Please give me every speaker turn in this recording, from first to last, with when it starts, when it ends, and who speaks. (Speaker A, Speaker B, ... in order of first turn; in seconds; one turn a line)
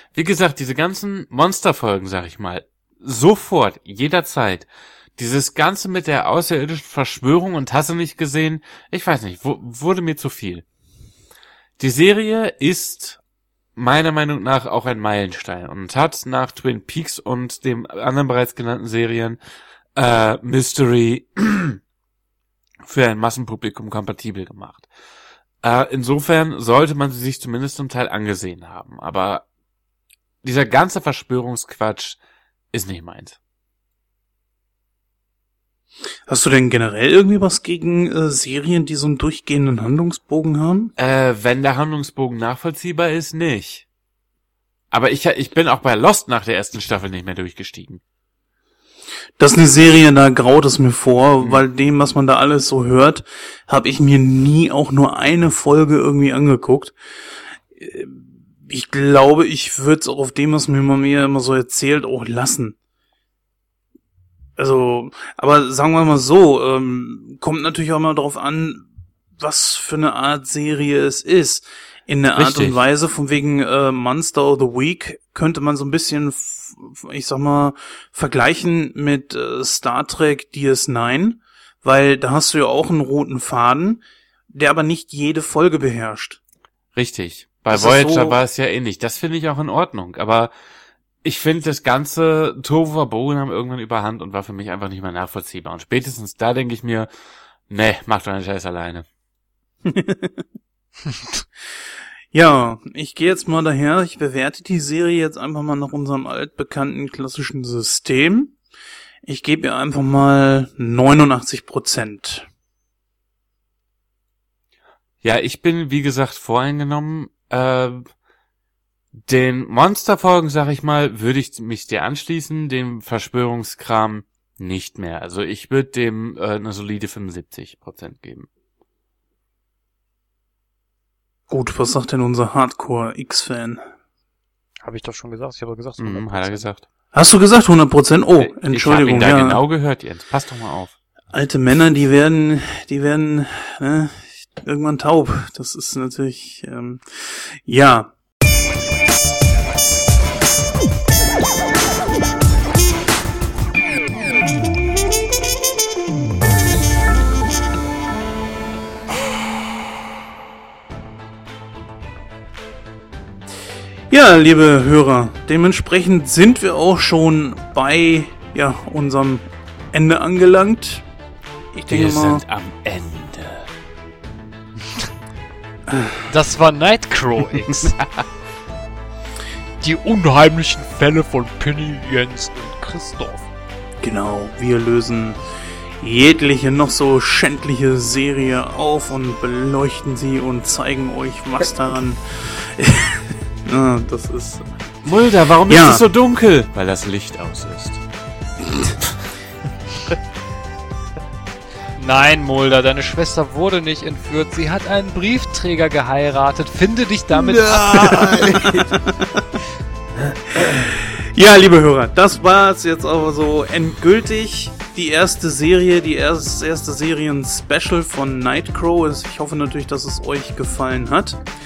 Speaker A: 0.1-10.6
Speaker A: 11.8-13.2
Speaker A: 13.8-19.4
Speaker A: 19.9-21.8
Speaker A: 22.8-24.9
Speaker A: 25.6-29.4
Speaker A: 30.4-32.2
Speaker A: 32.7-33.4
Speaker B: 36.3-40.9
Speaker A: 41.0-43.8
Speaker A: 44.9-48.0
Speaker B: 49.4-56.9
Speaker B: 57.7-62.8
Speaker B: 64.6-68.8
Speaker B: 69.4-86.4
Speaker A: 72.3-72.8
Speaker A: 86.9-90.5
Speaker B: 87.7-88.4
Speaker A: 91.2-97.1
Speaker A: 97.7-99.0
Speaker B: 99.8-100.4
Speaker B: 102.3-108.5
Speaker B: 109.2-112.5
Speaker A: 115.2-118.1
Speaker A: 119.2-128.5
Speaker B: 131.5-133.8
Speaker C: 134.8-136.7
Speaker A: 136.0-136.8
Speaker B: 137.1-139.6
Speaker A: 138.4-140.9
Speaker B: 141.3-148.1
Speaker B: 164.1-171.0
Speaker B: 171.7-172.4
Speaker A: 171.9-173.7
Speaker B: 175.9-176.2
Speaker C: 176.3-178.0
Speaker C: 179.8-183.5
Speaker B: 184.0-185.4
Speaker B: 186.0-194.7
Speaker A: 195.0-198.0
Speaker B: 195.7-196.0
Speaker C: 201.9-208.8
Speaker B: 207.5-209.4
Speaker B: 210.5-221.4